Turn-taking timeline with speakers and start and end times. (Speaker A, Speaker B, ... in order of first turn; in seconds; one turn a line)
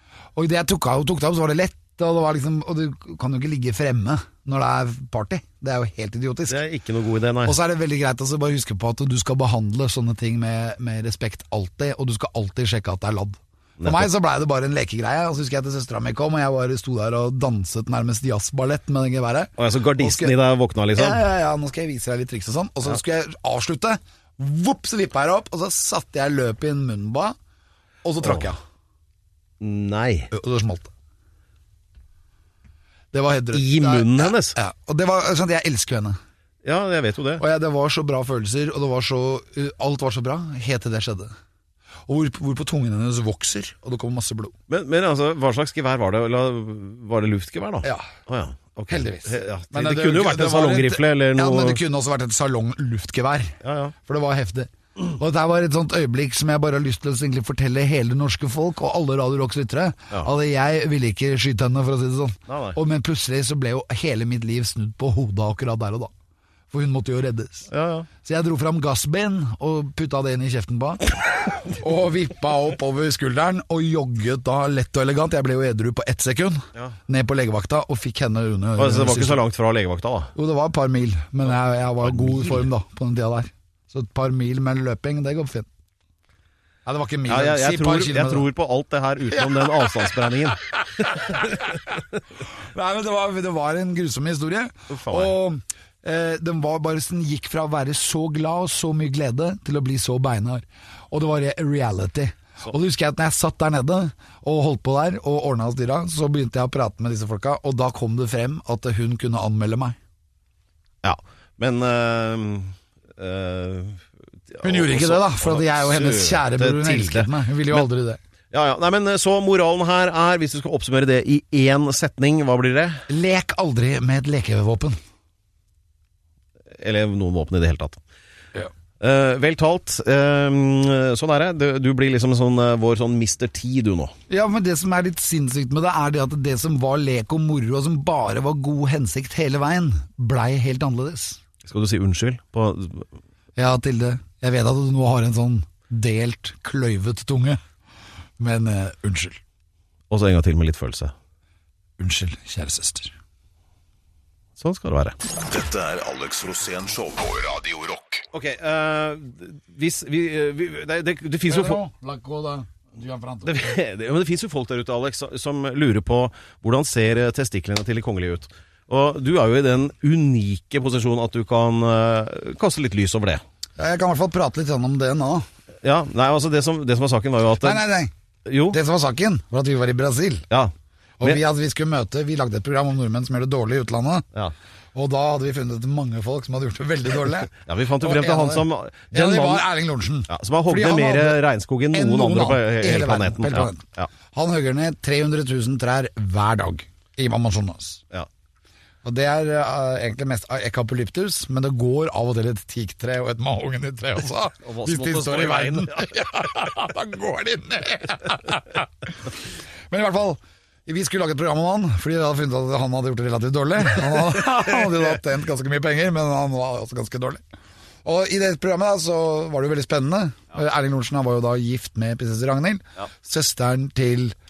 Speaker A: 0.3-6.6
Speaker B: 6.5-7.5
Speaker A: 7.4-20.3
Speaker B: 13.8-14.1
Speaker B: 19.6-21.2
Speaker A: 20.9-27.4
Speaker A: 28.0-28.6
Speaker B: 29.6-30.3
Speaker A: 30.3-30.9
Speaker A: 33.1-36.2
Speaker B: 33.5-34.5
Speaker B: 36.6-37.4
Speaker A: 37.4-41.3
Speaker A: 42.1-44.5
Speaker B: 44.7-51.8
Speaker A: 48.9-66.1
Speaker B: 53.6-53.9
Speaker B: 62.5-62.8
Speaker A: 66.7-67.7
Speaker B: 67.7-68.1
Speaker A: 68.2-79.4
Speaker B: 78.8-80.3
Speaker A: 80.3-85.7
Speaker B: 82.0-82.7
Speaker A: 86.8-88.5
Speaker B: 87.3-90.6
Speaker A: 89.6-89.9
Speaker A: 91.1-91.6
Speaker A: 92.7-110.0
Speaker B: 94.9-95.3
Speaker B: 111.0-117.8
Speaker A: 114.6-118.2
Speaker B: 118.5-123.0
Speaker A: 123.1-125.0
Speaker B: 126.7-128.0
Speaker B: 129.0-134.1
Speaker A: 134.3-141.4
Speaker B: 141.6-143.1
Speaker A: 143.6-147.6
Speaker A: 148.4-149.4
Speaker B: 150.1-151.1
Speaker A: 152.0-153.1
Speaker B: 154.6-155.2
Speaker C: 155.4-158.2
Speaker B: 158.3-161.8
Speaker A: 161.4-163.6
Speaker B: 163.4-173.4
Speaker A: 173.8-175.4
Speaker B: 175.8-177.8
Speaker A: 177.6-178.1
Speaker B: 178.4-178.8
Speaker A: 178.7-180.4
Speaker B: 180.5-181.4
Speaker A: 181.2-184.2
Speaker A: 184.9-191.4
Speaker B: 187.6-189.7
Speaker B: 190.3-194.1
Speaker A: 191.9-198.0
Speaker A: 199.0-208.9
Speaker B: 204.6-206.1
Speaker A: 209.9-217.4
Speaker A: 218.0-224.3